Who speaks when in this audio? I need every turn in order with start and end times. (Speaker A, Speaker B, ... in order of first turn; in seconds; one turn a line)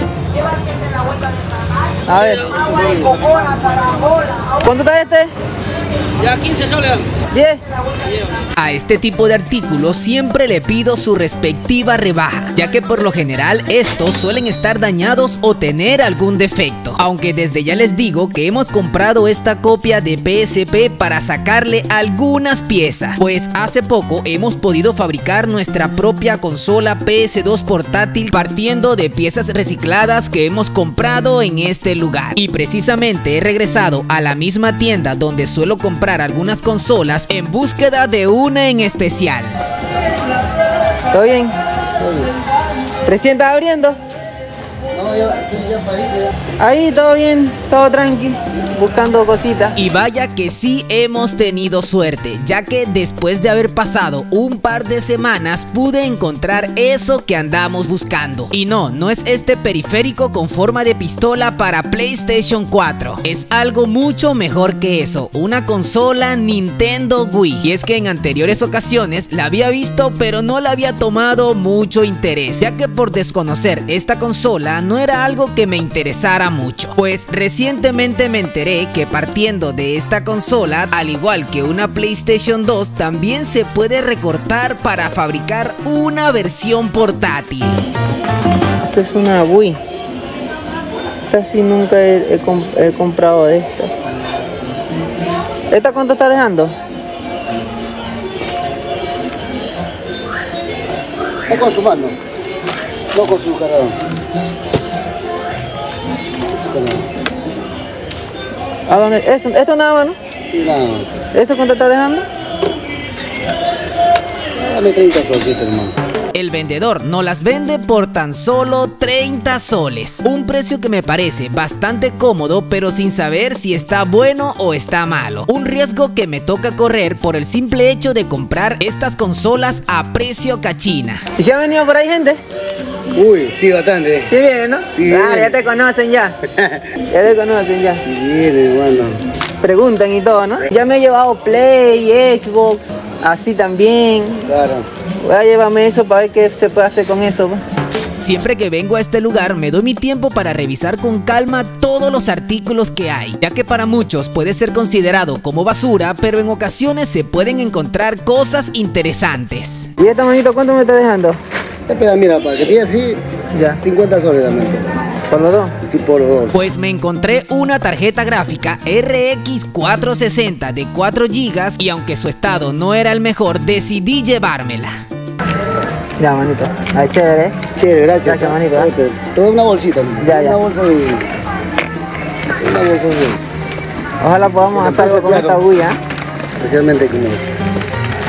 Speaker A: 2.0-5.3
Speaker A: 7.3-7.6
Speaker B: 8.6-39.6
Speaker A: 41.1-41.5
Speaker C: 42.0-42.3
Speaker A: 43.0-44.0
Speaker C: 44.9-46.3
Speaker A: 46.6-49.8
Speaker B: 49.7-87.8
Speaker A: 88.8-89.8
Speaker A: 91.3-94.0
Speaker A: 95.7-96.7
Speaker C: 101.5-102.2
Speaker C: 103.1-104.0
Speaker C: 106.5-107.1
Speaker A: 108.9-110.2
Speaker C: 110.5-111.1
Speaker A: 111.3-112.2
Speaker C: 114.5-116.0
Speaker B: 116.3-131.2
Speaker A: 131.4-132.4
Speaker C: 133.1-134.3
Speaker A: 134.3-136.3
Speaker C: 134.9-135.6
Speaker C: 136.5-136.8
Speaker A: 137.1-138.0
Speaker C: 138.0-139.2
Speaker A: 139.6-144.5
Speaker C: 144.5-144.8
Speaker A: 145.2-147.6
Speaker B: 148.2-159.9
Speaker A: 160.0-161.4
Speaker C: 161.9-163.2
Speaker A: 163.5-163.8
Speaker C: 163.8-164.8
Speaker A: 165.3-165.7
Speaker C: 165.8-166.6
Speaker B: 166.5-174.9
Speaker A: 176.2-177.6
Speaker C: 177.8-181.3
Speaker A: 178.2-178.9
Speaker A: 180.2-180.6
Speaker C: 182.6-183.4
Speaker A: 184.2-186.0
Speaker C: 184.7-185.6
Speaker C: 186.6-187.4